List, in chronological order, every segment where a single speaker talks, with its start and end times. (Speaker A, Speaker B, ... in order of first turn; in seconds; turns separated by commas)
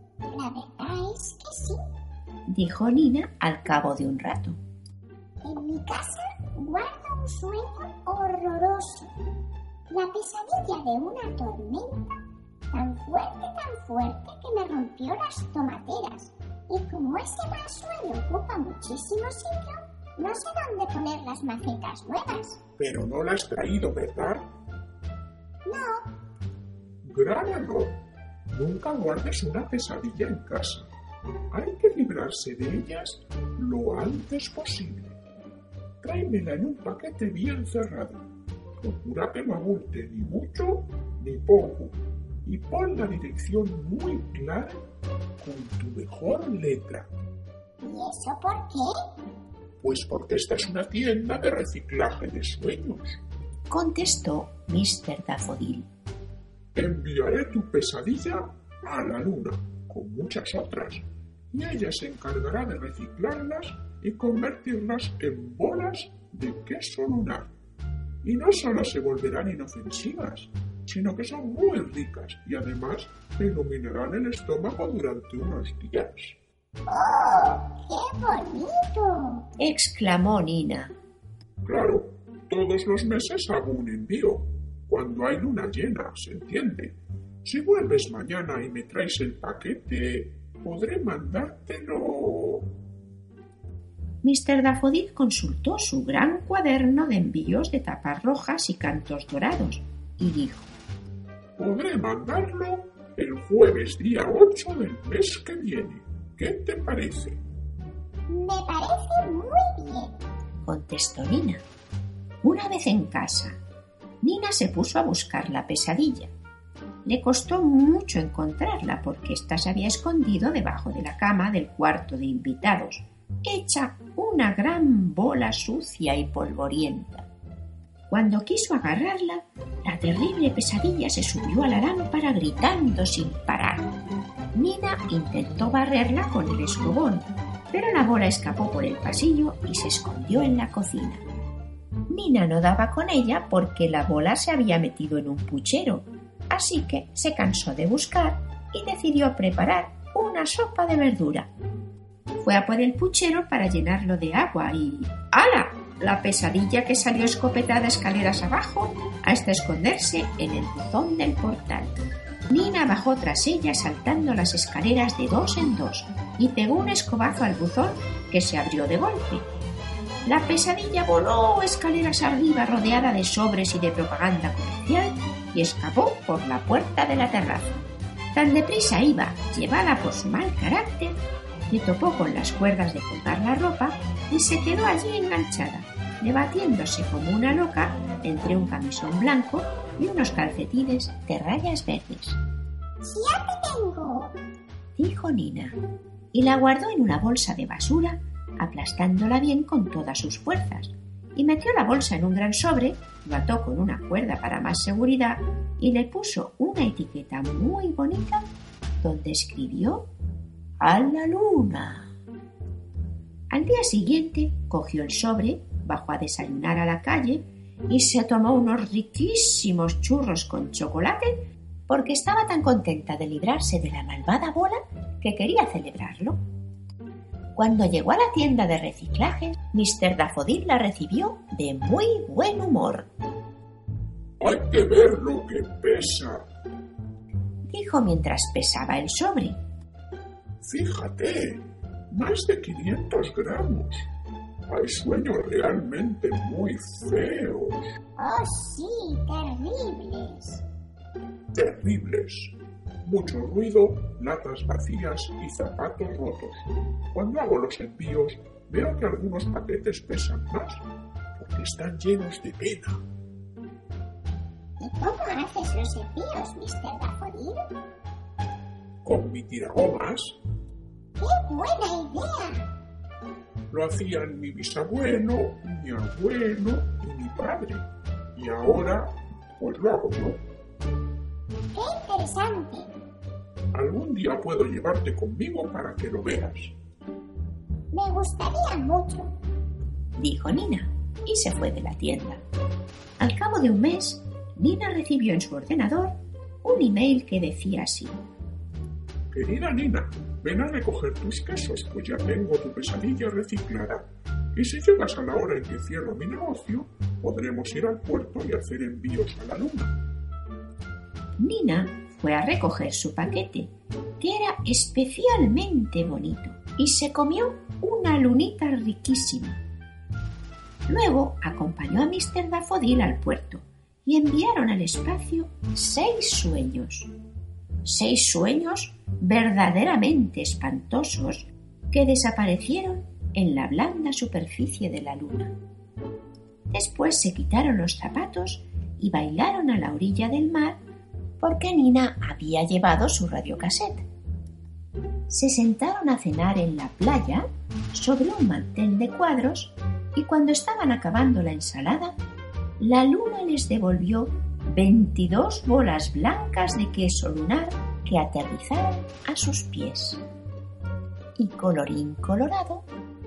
Speaker A: 0.3-1.8, Speaker B: 2.5-4.6, Speaker A: 5.4-9.1, Speaker A: 9.9-12.1, Speaker A: 12.7-22.6, Speaker C: 22.8-24.5, Speaker A: 25.6-26.1, Speaker C: 27.0-30.9, Speaker C: 31.5-35.2, Speaker C: 36.0-38.2, Speaker C: 38.8-44.8, Speaker C: 45.4-47.1, Speaker A: 47.8-48.9, Speaker C: 49.8-53.2, Speaker B: 53.7-55.9, Speaker C: 56.7-67.5, Speaker C: 68.2-76.4, Speaker A: 76.9-79.4, Speaker B: 79.6-80.9, Speaker C: 81.6-92.7, Speaker B: 94.2-100.8, Speaker C: 101.6-107.4, Speaker A: 108.3-110.2, Speaker B: 110.6-111.6, Speaker B: 112.4-113.6, Speaker B: 114.2-116.3, Speaker B: 117.0-127.3, Speaker B: 128.1-133.9, Speaker B: 134.5-141.2, Speaker B: 142.1-151.5, Speaker B: 152.4-161.9, Speaker B: 162.5-169.4, Speaker B: 170.2-177.8, Speaker B: 178.3-192.4, Speaker A: 193.0-194.3, Speaker B: 194.9-195.8, Speaker B: 196.3-208.4, Speaker B: 209.0-210.1, Speaker B: 210.8-212.1, Speaker B: 213.5-226.4, Speaker B: 227.5-233.1, Speaker C: 234.4-236.5, Speaker B: 237.7-239.6, Speaker C: 240.6-244.1, Speaker C: 244.7-247.9, Speaker A: 248.2-250.6, Speaker C: 251.5-260.8, Speaker C: 261.4-263.0, Speaker A: 264.8-267.7, Speaker C: 269.0-270.4, Speaker A: 271.2-272.7, Speaker C: 273.7-280.4, Speaker A: 281.7-282.9, Speaker C: 283.7-286.8, Speaker A: 287.9-289.3, Speaker B: 290.2-292.4, Speaker B: 293.2-298.1, Speaker C: 299.3-310.0, Speaker B: 311.4-319.6, Speaker B: 320.9-327.1, Speaker B: 327.8-335.5, Speaker B: 336.7-340.8, Speaker B: 341.4-344.1, Speaker B: 345.3-352.1, Speaker B: 352.8-360.2, Speaker B: 361.4-362.9